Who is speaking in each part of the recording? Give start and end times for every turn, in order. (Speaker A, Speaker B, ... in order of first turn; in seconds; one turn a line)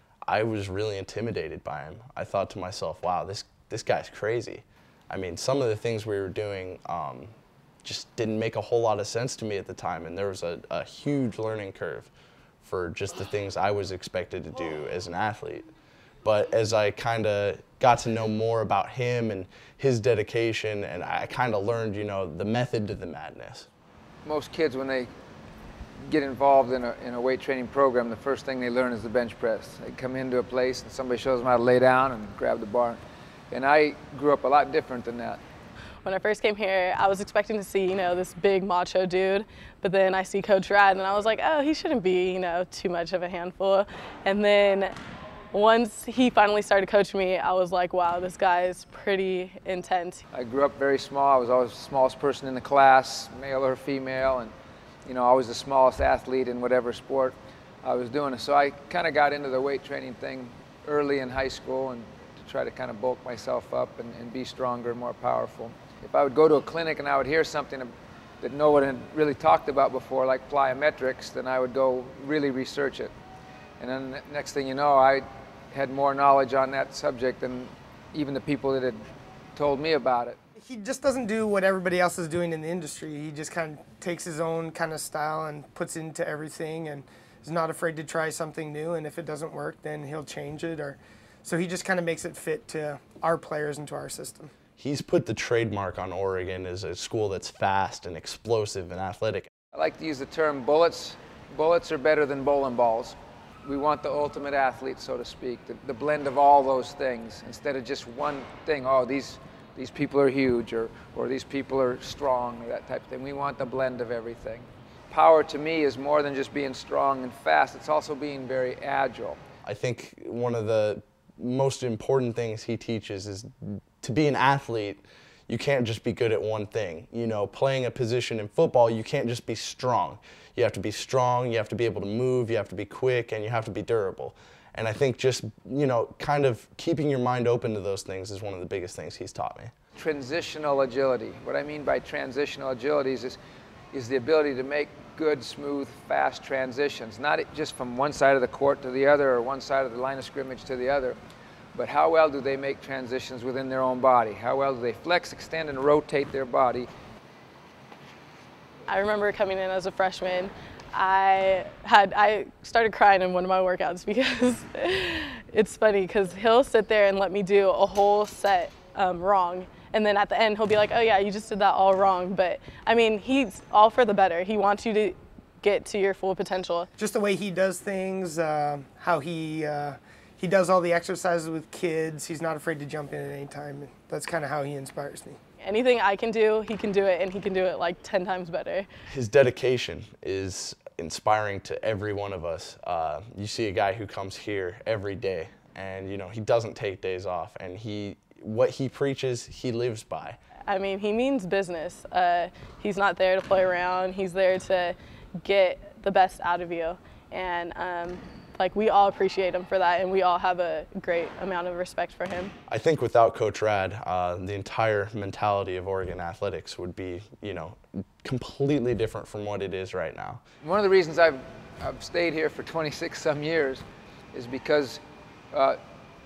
Speaker A: 0.3-12.1
Speaker A: 12.6-15.7
Speaker A: 16.2-23.7
Speaker B: 24.2-25.1
Speaker B: 26.0-35.4
Speaker C: 36.0-44.9
Speaker C: 45.5-50.2
Speaker B: 50.3-54.5
Speaker B: 55.0-73.1
Speaker B: 73.8-79.0
Speaker B: 79.5-80.4
Speaker D: 80.6-94.5
Speaker A: 94.8-99.5
Speaker B: 99.7-119.4
Speaker A: 119.6-139.7
Speaker B: 139.9-143.4
Speaker B: 143.9-151.2
Speaker B: 151.7-156.9
Speaker C: 158.9-176.9
Speaker D: 177.0-185.4
Speaker C: 185.6-188.9
Speaker A: 189.1-200.4
Speaker C: 200.7-212.5
Speaker A: 212.7-220.4
Speaker B: 220.6-225.0
Speaker B: 225.5-225.8